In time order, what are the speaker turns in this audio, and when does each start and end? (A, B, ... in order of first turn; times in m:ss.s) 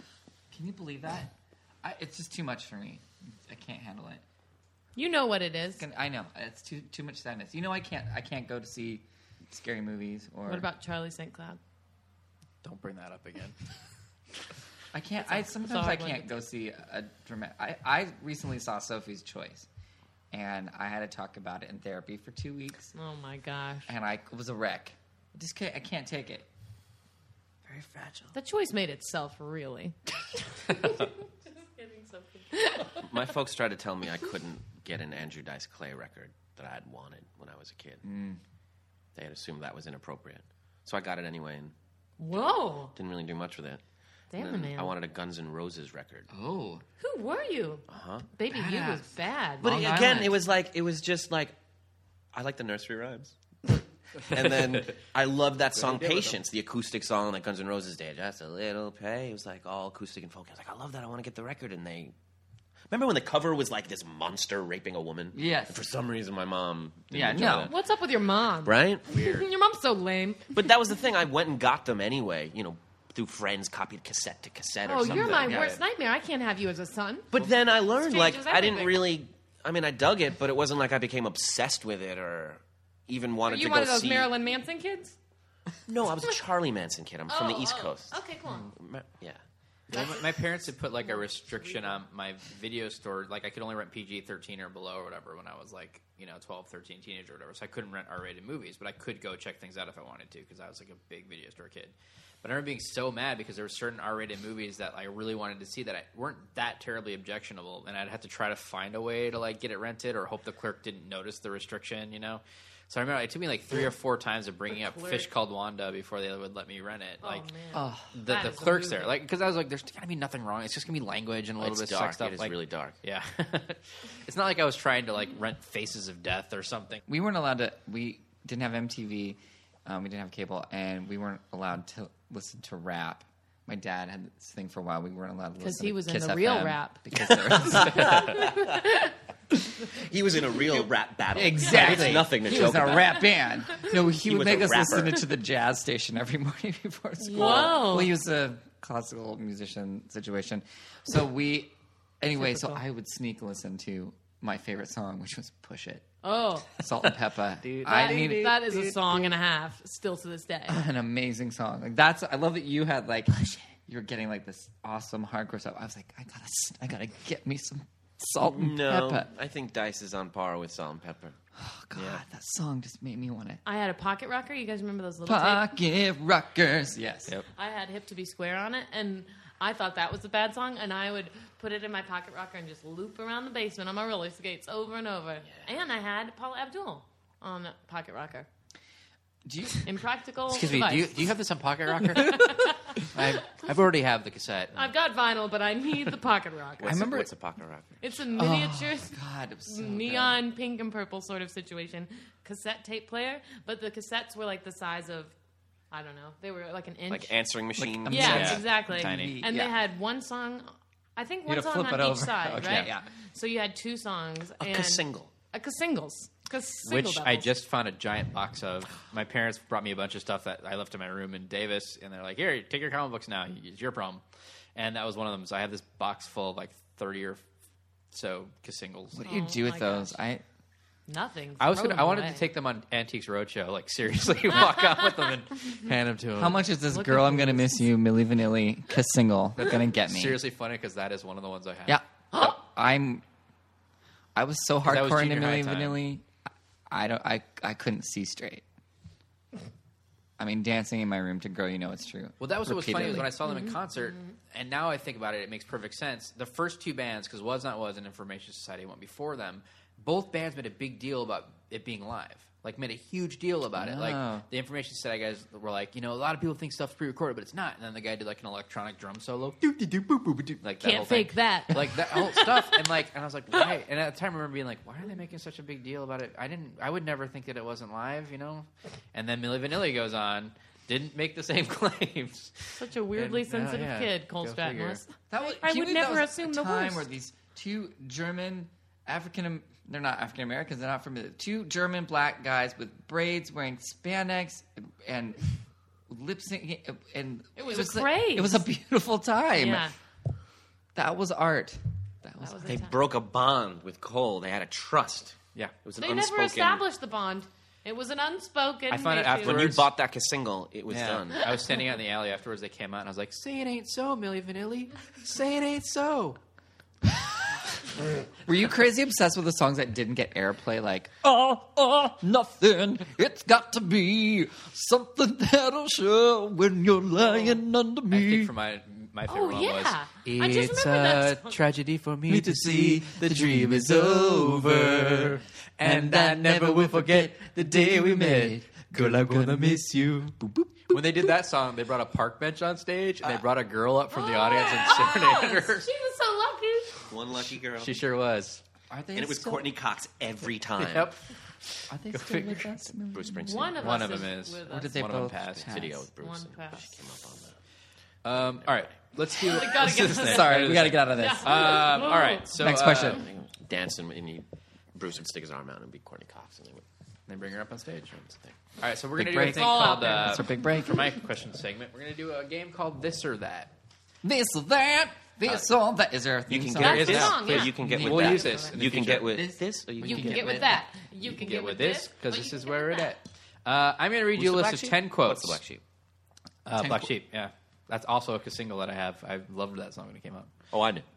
0:00.5-0:04.2 A
0:05.0-0:05.8 B
0:05.8-0:10.7 A
0:10.5-0:11.6 B
0:12.6-0:13.6 C
0:14.9-0:19.7 A
0:15.2-0:16.3 B
0:20.3-0:22.9 A
0:22.9-0:23.9 B
0:23.9-0:26.5 A
0:27.7-0:28.3 C
0:28.3-0:33.1 B
0:33.0-0:38.0 D
0:38.0-0:38.4 A
0:39.2-0:41.7 D
0:42.2-0:42.9 B
0:42.9-0:43.8 D
0:44.3-0:44.9 B
0:44.4-0:46.3 D
0:46.3-0:46.8 A
0:47.0-0:49.6 B
0:47.9-0:48.3 D
0:48.5-0:50.4 A
0:49.6-0:51.6 D
0:52.3-1:02.1 D
0:55.8-0:56.4 C
1:02.9-1:07.8 D
1:05.3-1:05.8 A
1:07.1-1:07.7 A
1:07.6-1:10.6 B
1:08.6-1:09.1 D
1:09.1-1:09.5 C
1:10.5-1:15.7 D
1:14.8-1:19.1 B
1:15.1-1:15.6 C
1:15.1-1:15.8 A
1:17.3-1:24.3 D
1:23.5-1:25.2 B
1:25.9-1:28.2 D
1:27.3-1:28.7 B
1:28.7-1:29.4 D
1:29.9-1:57.5 C
1:29.9-1:30.3 B
1:31.0-1:32.0 B
1:54.9-1:55.3 B
1:57.2-1:59.2 B
1:57.7-1:58.1 A
1:58.1-2:07.0 C
2:01.6-2:03.0 D
2:07.1-2:18.5 A
2:15.6-2:19.1 B
2:17.3-2:18.8 D
2:19.9-2:23.3 D
2:21.3-2:36.1 A
2:21.7-2:22.3 C
2:24.1-2:25.2 D
2:27.2-2:28.1 B
2:36.2-2:36.7 B
2:36.8-2:39.0 A
2:37.6-2:38.5 C
2:37.8-2:40.8 B
2:40.7-2:49.3 A
2:48.4-2:51.4 D
2:51.6-2:53.6 A
2:52.0-2:52.2 C
2:53.6-2:55.7 B
2:55.3-2:57.3 A
2:57.6-3:08.5 B
3:09.4-3:09.9 A
3:09.8-3:11.2 B
3:10.5-3:14.9 C
3:12.2-3:13.0 B
3:14.7-3:17.1 B
3:16.8-3:18.0 D
3:16.8-3:17.3 A
3:18.0-3:25.3 B
3:18.4-3:20.4 A
3:25.9-3:27.4 B
3:27.1-3:28.6 D
3:27.8-3:29.8 A
3:28.1-3:37.5 B
3:28.1-3:29.4 C
3:31.5-3:33.1 A
3:34.6-3:35.3 D
3:36.9-3:44.2 C
3:44.8-3:47.4 C
3:48.1-3:49.2 C
3:49.1-3:50.4 A
3:49.2-3:50.2 B
3:51.1-3:52.5 B
3:51.6-3:56.7 C
3:56.4-4:00.4 A
3:56.9-3:57.9 B
3:59.7-4:02.0 C
4:01.9-4:03.2 A
4:04.4-4:06.3 A
4:04.8-4:06.0 C
4:06.9-4:08.6 A
4:10.4-4:13.3 A
4:12.4-4:45.0 C
4:23.8-4:24.5 A
4:30.8-4:32.5 B
4:42.8-4:47.1 B
4:45.3-4:55.5 A
4:56.1-4:59.9 A
4:57.6-4:58.6 B
4:59.6-4:59.9 B
5:01.0-5:02.8 A
5:02.4-5:03.0 B
5:02.7-5:06.8 D
5:06.0-5:09.7 B
5:08.9-5:09.9 C
5:09.3-5:11.5 D
5:10.9-5:16.4 C
5:18.4-5:28.5 A
5:28.1-5:45.9 C
5:29.3-5:31.6 B
5:32.3-5:39.9 A
5:40.4-5:41.0 A
5:44.1-5:47.1 B
5:47.1-5:48.0 D
5:47.4-5:48.6 C
5:48.9-5:49.7 A
5:49.2-5:51.1 D
5:50.8-5:52.7 C
5:51.9-5:53.8 A
5:53.1-5:54.2 D
5:53.4-5:55.0 B
5:53.8-5:55.9 C
5:54.7-5:56.1 A
5:55.6-5:57.6 D
5:56.2-5:57.0 B
5:58.2-6:03.2 C
5:58.4-5:58.8 D
5:59.3-6:02.5 B
5:59.8-6:02.0 A
6:02.5-6:03.3 A
6:03.0-6:06.8 D
6:07.3-6:08.2 C
6:08.1-6:08.6 D
6:08.8-6:13.7 C
6:09.2-6:11.1 A
6:09.4-6:10.5 B
6:14.2-6:20.8 A
6:16.5-6:20.6 D
6:16.8-6:18.8 B
6:16.8-6:19.4 C
6:20.0-6:23.1 B
6:21.2-6:25.6 C
6:24.4-6:25.8 D
6:26.7-6:30.5 C
6:26.7-6:27.1 A
6:30.7-6:31.1 D